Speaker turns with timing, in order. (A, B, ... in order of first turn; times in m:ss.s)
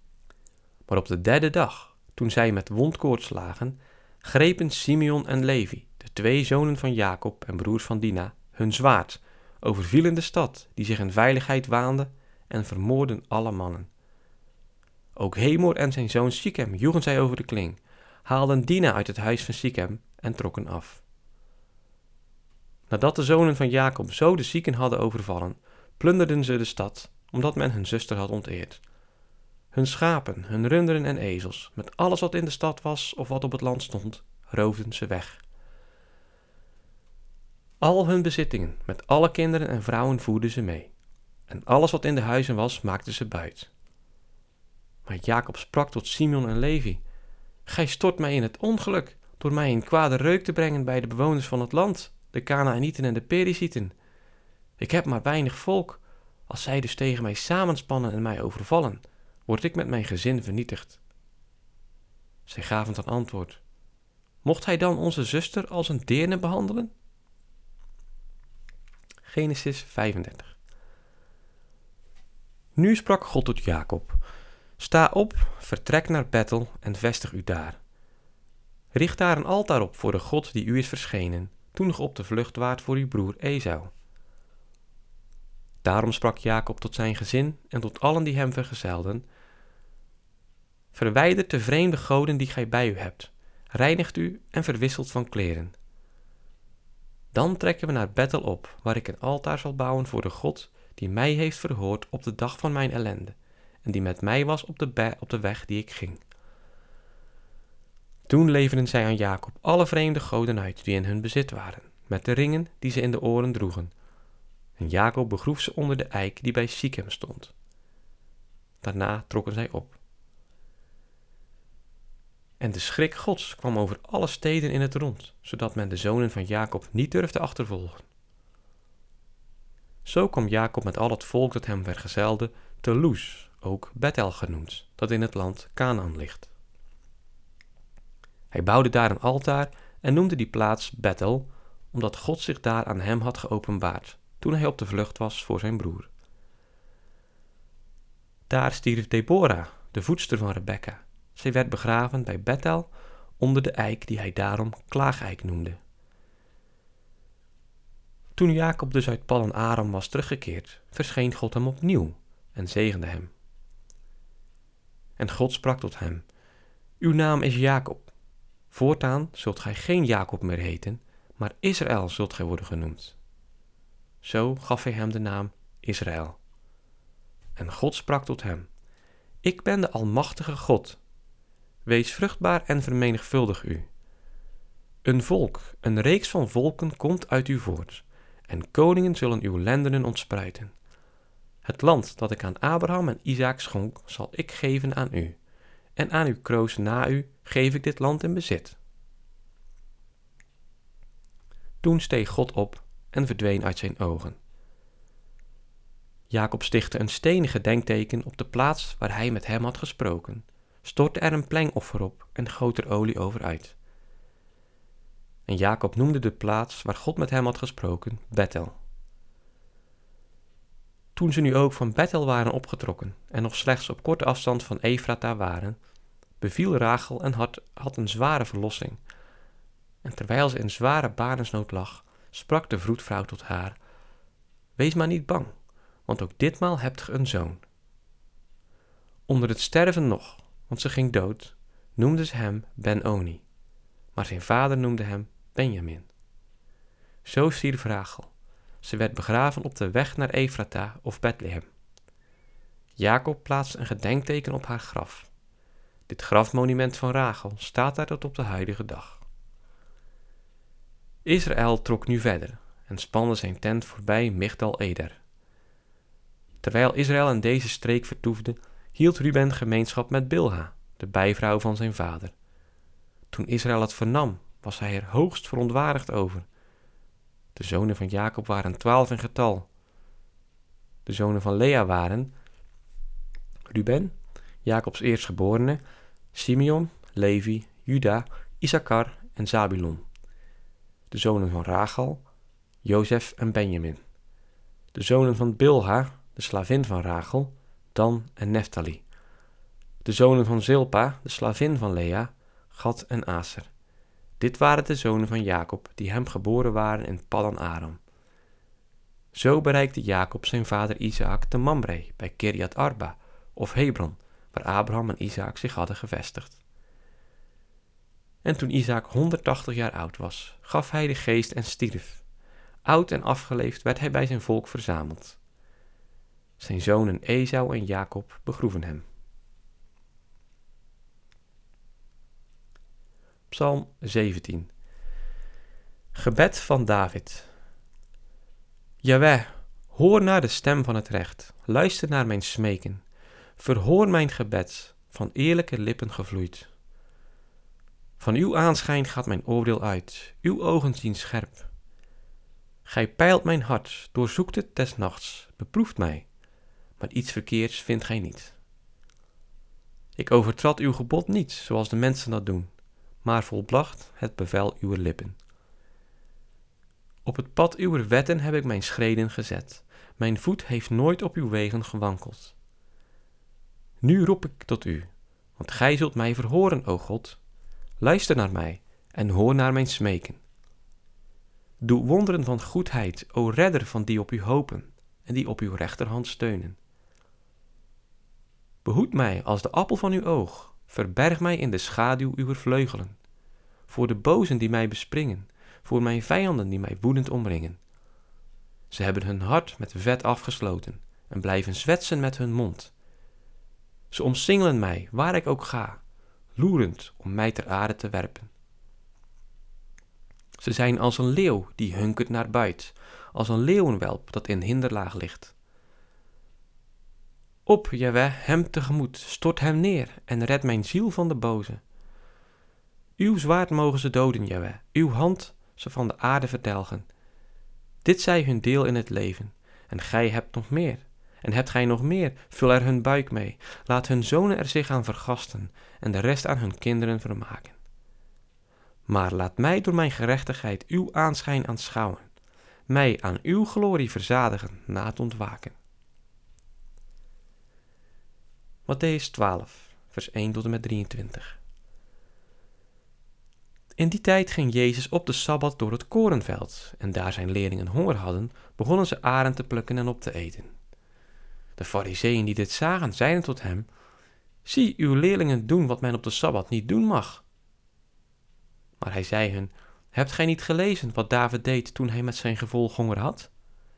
0:00.9-0:13.9 A
0:15.2-0:21.0 A
0:22.9-0:28.8 A
0:29.7-0:35.4 A
0:37.8-0:40.9 A
0:41.5-0:43.7 A
0:45.0-0:47.0 A
0:47.6-0:53.9 A
0:54.8-1:01.0 A
1:02.4-1:03.6 A
1:04.4-1:06.9 A
1:09.2-1:10.5 A
1:12.8-1:14.2 A
1:14.8-1:17.8 A
1:18.9-1:23.9 A
1:25.8-1:29.2 A
1:30.9-1:35.7 A
1:37.3-1:46.2 A
1:48.3-1:53.9 A
1:54.8-1:57.5 A
1:58.8-2:00.0 A
2:02.6-2:08.0 A
2:10.0-2:16.5 A
2:18.5-2:26.1 A
2:28.5-2:35.8 A
2:38.4-2:43.3 A
2:45.2-2:46.3 A
2:47.0-2:48.1 A
2:48.7-2:53.2 A
2:54.2-2:56.4 A
2:57.6-2:58.7 A
2:59.4-3:01.0 A
3:01.8-3:03.9 A
3:05.0-3:10.7 A
3:11.6-3:15.4 A
3:16.0-3:18.8 A
3:21.8-3:24.4 A
3:26.3-3:33.8 A
3:35.5-3:38.8 A
3:41.1-3:45.8 A
3:46.4-3:49.0 A
3:50.0-3:53.8 A
3:54.8-3:55.5 A
3:56.0-3:57.6 A
3:59.3-4:03.4 A
4:04.1-4:06.1 A
4:07.2-4:08.3 A
4:08.8-4:11.7 A
4:13.0-4:15.3 A
4:16.1-4:19.2 A
4:21.2-4:25.2 A
4:26.6-4:32.3 A
4:33.3-4:36.4 A
4:37.6-4:39.7 A
4:41.0-4:42.3 A
4:43.7-4:45.8 A
4:46.3-4:50.0 A
4:51.1-4:52.2 A
4:52.8-4:54.0 A
4:54.9-4:59.0 A
5:00.0-5:03.7 A
5:04.4-5:08.0 A
5:09.3-5:16.6 A
5:18.4-5:22.2 A
5:22.8-5:25.4 A
5:26.6-5:29.0 A
5:33.5-5:34.7 A
5:36.1-5:37.5 A
5:39.0-5:43.0 A
5:43.6-5:46.7 A
5:48.2-5:51.7 A
5:52.8-5:56.3 A
5:57.0-5:58.6 A
6:00.2-6:02.7 A
6:03.2-6:05.4 A
6:07.2-6:12.6 A
6:14.0-6:17.4 A
6:18.0-6:20.4 A
6:21.8-6:26.8 A
6:28.8-6:33.2 A
6:33.9-6:37.8 A
6:38.9-6:42.9 A
6:44.1-6:46.0 A
6:46.6-6:48.5 A
6:50.6-6:55.5 A
6:57.6-7:01.8 A
7:03.2-7:07.1 A
7:08.0-7:17.8 A
7:19.1-7:22.3 A
7:22.9-7:25.8 A
7:28.8-7:31.6 A
7:34.0-7:40.7 A
7:41.8-7:43.9 A
7:44.6-7:47.4 A
7:49.0-7:53.5 A